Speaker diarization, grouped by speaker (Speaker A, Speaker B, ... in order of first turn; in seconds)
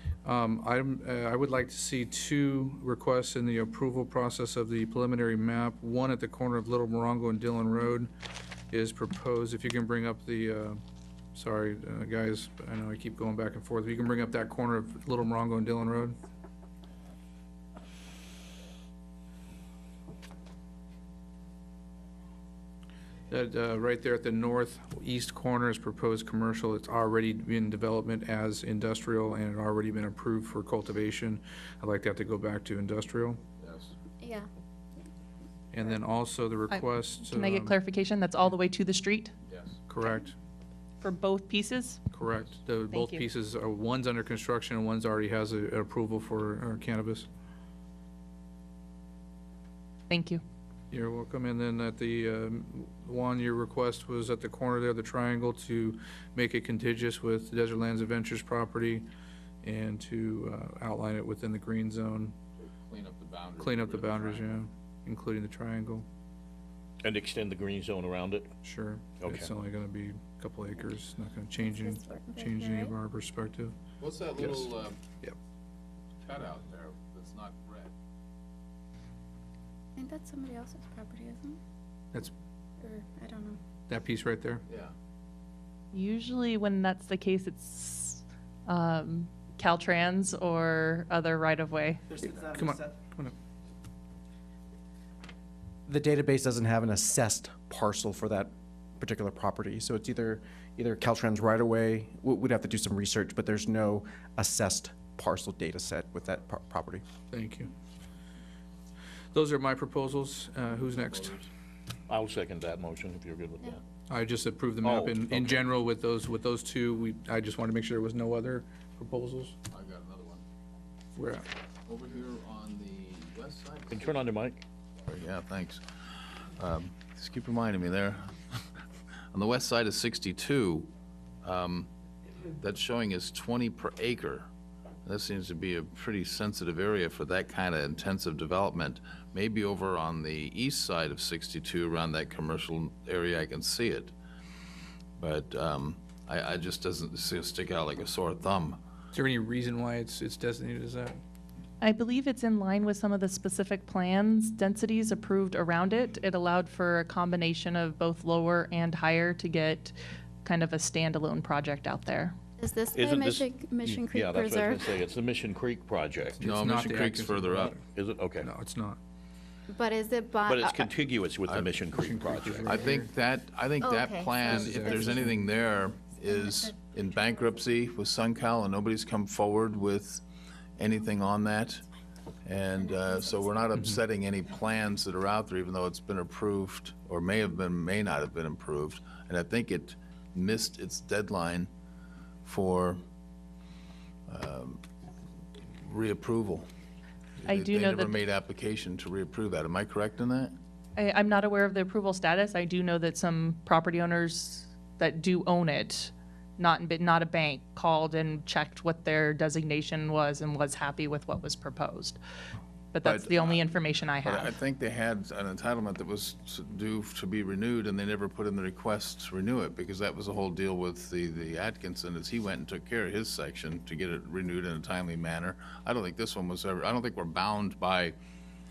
Speaker A: 0.2-8.1, 8.7-10.8, 11.3-16.2, 23.3-33.4, 35.7-37.7, 39.9-40.4, 42.1-47.3, 50.9-59.1, 59.6-62.3, 63.6-66.0, 68.6-73.8, 74.4-74.7, 83.9-84.7, 92.3-93.3, 107.3-107.7, 109.3-111.5, 114.1-119.6, 121.2-121.5, 149.1-151.2, 166.4-167.8, 168.4-169.0, 171.9-173.1, 174.5-175.4
Speaker B: 33.6-33.9, 39.5-39.8, 62.6-64.6, 74.0-75.0, 76.2-77.9, 84.7-84.9, 119.7-120.4, 121.9-124.2, 125.1-125.8, 126.4-128.3, 129.3-130.9, 131.4-131.9, 132.5-134.5, 135.1-144.1, 145.2-148.8, 166.4-167.8, 171.5-171.7, 172.7-180.2, 180.8-181.8, 182.4-191.7, 192.4-193.0, 194.3-194.8, 195.8-196.7, 197.4-200.5, 213.0-213.6, 214.2-228.2
Speaker C: 34.2-34.5, 71.6-73.0, 80.0-81.6, 82.8-83.6, 162.6-165.0, 169.7-170.9, 173.8-175.1, 176.3-176.8
Speaker D: 36.7-39.3, 41.0-42.0, 42.9-43.3, 50.1-50.4, 85.9-92.0, 151.8-162.3, 197.5-198.1, 201.0-212.2, 212.9-214.5
Speaker E: 67.0-68.5, 69.2-69.5, 112.1-113.8, 114.8-115.6, 123.9-124.6, 162.9-166.5, 167.9-168.5, 170.4-172.8
Speaker F: 92.2-92.8, 95.9-107.0